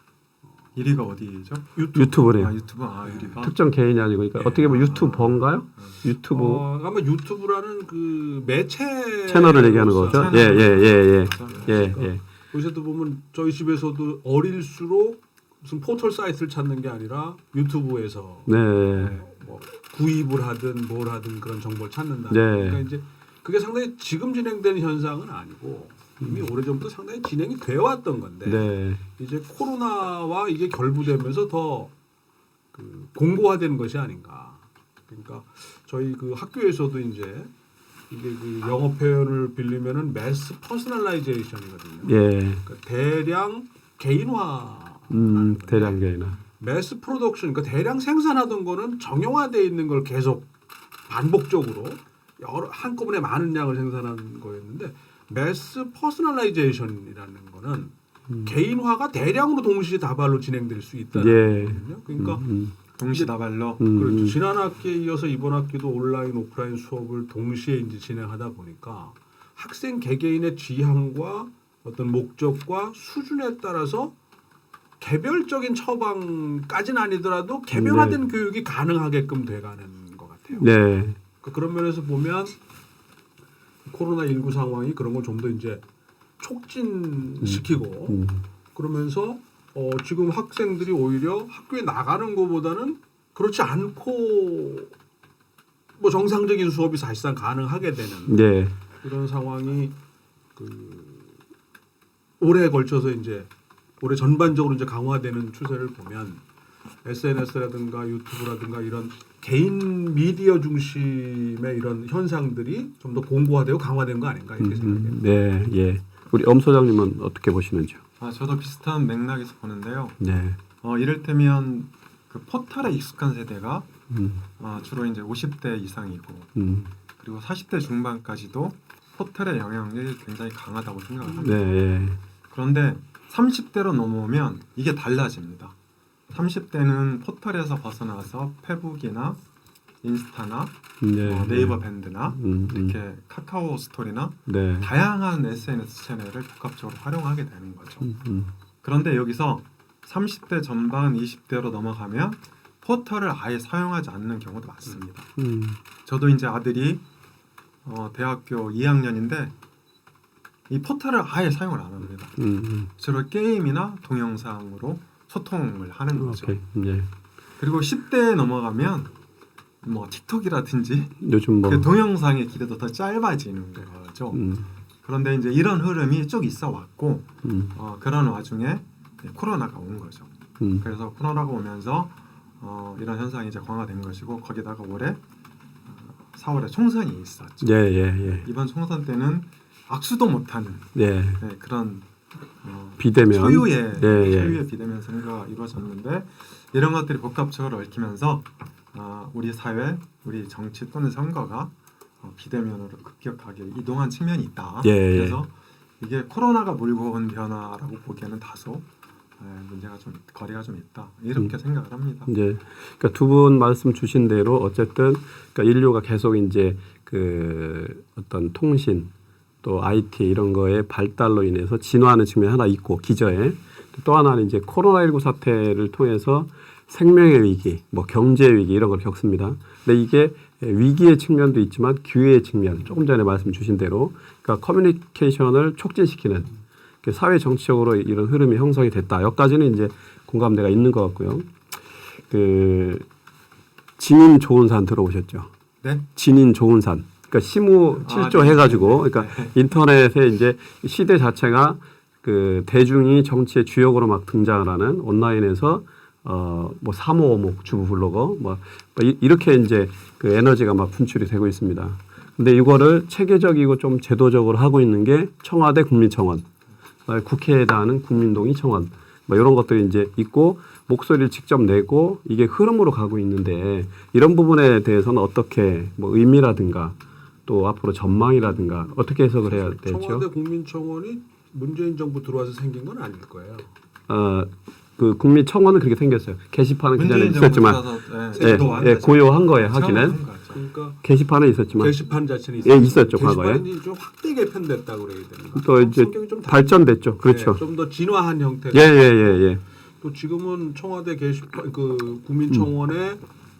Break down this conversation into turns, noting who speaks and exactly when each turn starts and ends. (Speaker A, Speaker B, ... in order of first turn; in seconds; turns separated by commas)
Speaker A: 0.8-3.5, Speaker B: 1.8-2.5, Speaker C: 1.9-2.5, Speaker B: 3.0-3.4, Speaker C: 3.4-6.6, Speaker B: 4.4-4.7, Speaker A: 4.5-6.0, Speaker B: 6.3-10.8, Speaker C: 9.3-12.2, Speaker A: 10.0-12.1, Speaker B: 11.6-31.9, Speaker C: 18.5-19.2, Speaker C: 22.3-22.9, Speaker C: 28.4-29.0, Speaker B: 32.7-37.5, Speaker B: 38.1-50.5, Speaker C: 42.0-42.6, Speaker C: 45.1-46.4, Speaker B: 51.1-62.5, Speaker C: 61.1-62.8, Speaker A: 63.0-63.8, Speaker C: 63.8-64.4, Speaker B: 63.9-74.1, Speaker B: 75.0-80.7, Speaker C: 77.7-78.2, Speaker C: 80.5-81.2, Speaker B: 81.4-82.6, Speaker B: 83.9-85.8, Speaker B: 86.4-94.9, Speaker C: 87.4-88.4, Speaker B: 96.0-98.4, Speaker C: 98.3-98.8, Speaker B: 99.0-100.0, Speaker B: 100.6-101.4, Speaker B: 102.4-106.4, Speaker B: 107.0-115.2, Speaker C: 114.6-118.0, Speaker A: 118.2-120.2, Speaker C: 120.2-120.6, Speaker A: 120.8-123.9, Speaker C: 124.1-124.4, Speaker A: 124.6-126.5, Speaker C: 126.6-126.9, Speaker A: 127.2-131.6, Speaker C: 131.4-132.2, Speaker A: 132.5-135.7, Speaker A: 136.3-139.4, Speaker A: 140.0-148.1, Speaker C: 141.0-141.8, Speaker C: 142.3-143.0, Speaker C: 144.5-144.9, Speaker C: 148.0-148.5, Speaker A: 148.8-155.3, Speaker C: 155.4-155.8, Speaker A: 156.1-157.0, Speaker A: 157.8-159.5, Speaker A: 160.7-162.4, Speaker C: 162.4-162.9, Speaker A: 163.0-166.6, Speaker C: 166.2-167.1, Speaker A: 167.6-169.1, Speaker A: 169.8-174.4, Speaker C: 171.2-171.9, Speaker C: 174.3-174.7, Speaker A: 175.0-185.2, Speaker C: 177.4-177.8, Speaker C: 180.6-180.8, Speaker A: 185.8-187.7, Speaker C: 187.6-188.4, Speaker A: 188.3-192.1, Speaker C: 190.9-191.4, Speaker A: 192.6-208.9, Speaker C: 193.0-194.6, Speaker C: 204.8-205.4, Speaker A: 209.4-212.3, Speaker C: 212.3-219.1, Speaker C: 219.6-236.5, Speaker C: 237.0-241.5, Speaker C: 242.3-243.1, Speaker C: 244.0-245.5, Speaker C: 246.1-266.5, Speaker A: 248.0-249.6, Speaker C: 267.1-280.3, Speaker B: 279.4-283.7, Speaker C: 284.1-290.2, Speaker A: 287.0-290.6, Speaker B: 288.3-289.0, Speaker B: 290.5-291.0, Speaker C: 291.0-291.9, Speaker B: 291.7-303.2, Speaker C: 292.6-293.6, Speaker C: 295.6-297.6, Speaker C: 298.7-299.6